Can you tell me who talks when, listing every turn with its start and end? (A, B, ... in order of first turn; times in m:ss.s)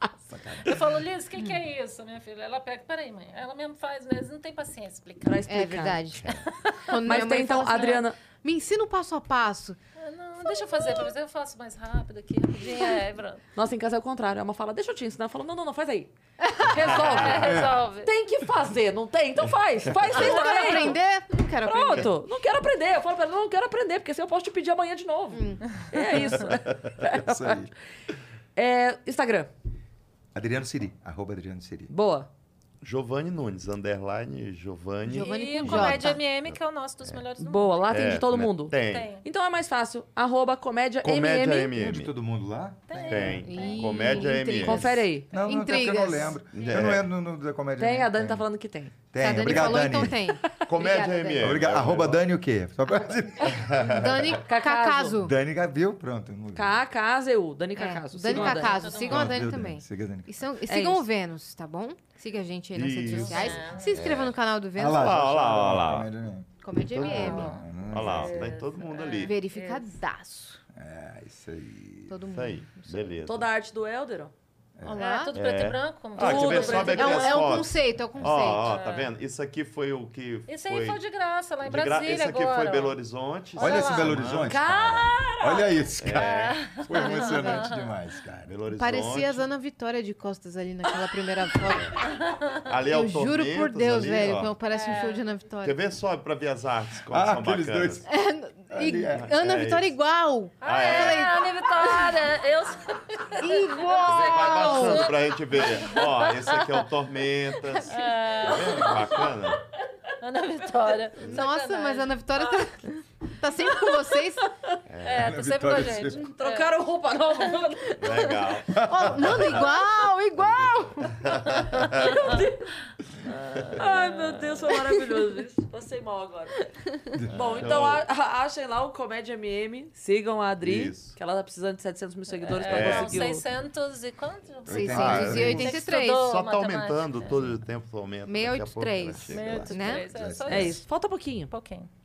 0:00.6-0:05.5 A
0:05.2-0:06.0 B
0:05.5-0:09.8 C
0:06.2-0:07.0 A
0:07.0-0:08.2 B
0:10.0-0:13.4 A
0:10.5-0:11.1 C
0:12.6-0:13.0 C
0:13.5-0:21.0 B
0:16.4-0:16.7 C
0:16.9-0:18.1 A
0:20.1-0:22.1 C
0:20.3-0:20.9 A
0:21.6-0:27.6 B
0:25.3-0:25.7 C
0:27.1-0:27.7 D
0:28.6-0:29.5 B
0:30.3-0:31.9 D
0:31.9-0:32.3 B
0:32.8-0:36.6 E
0:35.0-0:36.2 C
0:35.2-0:37.8 A
0:37.4-0:41.7 B
0:37.9-0:39.1 E
0:38.7-0:39.2 A
0:41.0-0:42.1 E
0:41.7-0:43.5 D
0:42.9-0:44.3 A
0:43.1-0:45.0 E
0:43.4-0:46.4 C
0:44.5-0:45.3 B
0:45.3-0:48.4 D
0:46.5-0:47.1 E
0:46.5-0:46.9 A
0:47.8-0:48.9 B
0:49.1-0:50.2 D
0:49.2-0:51.6 C
0:49.5-0:49.8 E
0:50.6-0:52.2 E
0:51.4-0:54.3 D
0:53.7-0:54.0 E
0:53.8-0:55.3 C
0:54.4-0:55.2 B
0:55.2-0:56.8 D
0:56.5-0:58.8 B
0:57.8-1:05.1 C
0:58.3-0:59.5 A
0:59.0-1:00.4 D
1:00.6-1:01.1 B
1:02.7-1:04.3 E
1:03.0-1:04.0 A
1:04.0-1:06.5 D
1:04.8-1:06.1 E
1:06.6-1:07.6 C
1:06.9-1:09.3 E
1:07.1-1:08.4 D
1:07.1-1:07.5 A
1:08.0-1:09.7 B
1:08.9-1:09.8 A
1:09.1-1:10.6 C
1:10.7-1:12.2 D
1:12.1-1:13.1 C
1:12.3-1:13.5 E
1:13.2-1:14.3 B
1:14.8-1:15.4 C
1:15.0-1:17.4 A
1:15.3-1:21.0 E
1:16.2-1:17.4 B
1:16.9-1:18.8 C
1:18.6-1:19.1 A
1:20.5-1:23.0 A
1:21.6-1:24.6 E
1:23.5-1:24.2 A
1:23.6-1:28.5 D
1:24.4-1:25.8 B
1:26.0-1:26.8 E
1:26.1-1:27.8 A
1:26.9-1:27.7 C
1:28.4-1:29.4 E
1:28.7-1:32.2 C
1:32.6-1:34.5 E
1:32.9-1:35.8 C
1:34.7-1:35.2 A
1:35.6-1:38.0 E
1:37.1-1:38.1 D
1:38.1-1:42.2 C
1:38.7-1:39.3 D
1:39.1-1:39.9 E
1:40.6-1:41.3 E
1:40.6-1:46.8 A
1:43.4-1:45.1 C
1:44.0-1:49.6 E
1:47.7-1:48.0 C
1:47.9-1:49.1 A
1:48.6-1:49.6 B
1:50.2-1:52.4 A
1:51.2-1:54.5 C
1:54.9-1:55.3 E
1:55.0-1:58.4 A
1:55.1-1:56.2 D
1:56.1-1:58.2 B
1:58.0-1:59.8 E
1:58.7-1:59.7 D
1:58.8-2:01.6 C
2:01.3-2:02.3 E
2:01.9-2:02.7 B
2:03.3-2:04.6 A
2:03.7-2:06.7 B
2:05.0-2:05.2 C
2:07.3-2:13.4 B
2:07.3-2:08.0 E
2:10.6-2:11.1 E
2:12.3-2:17.4 A
2:12.6-2:13.3 E
2:14.6-2:15.8 D
2:14.7-2:16.2 C
2:14.8-2:19.8 E
2:18.2-2:20.0 C
2:19.3-2:20.8 A
2:19.3-2:20.8 D
2:20.5-2:21.5 B
2:21.5-2:21.9 A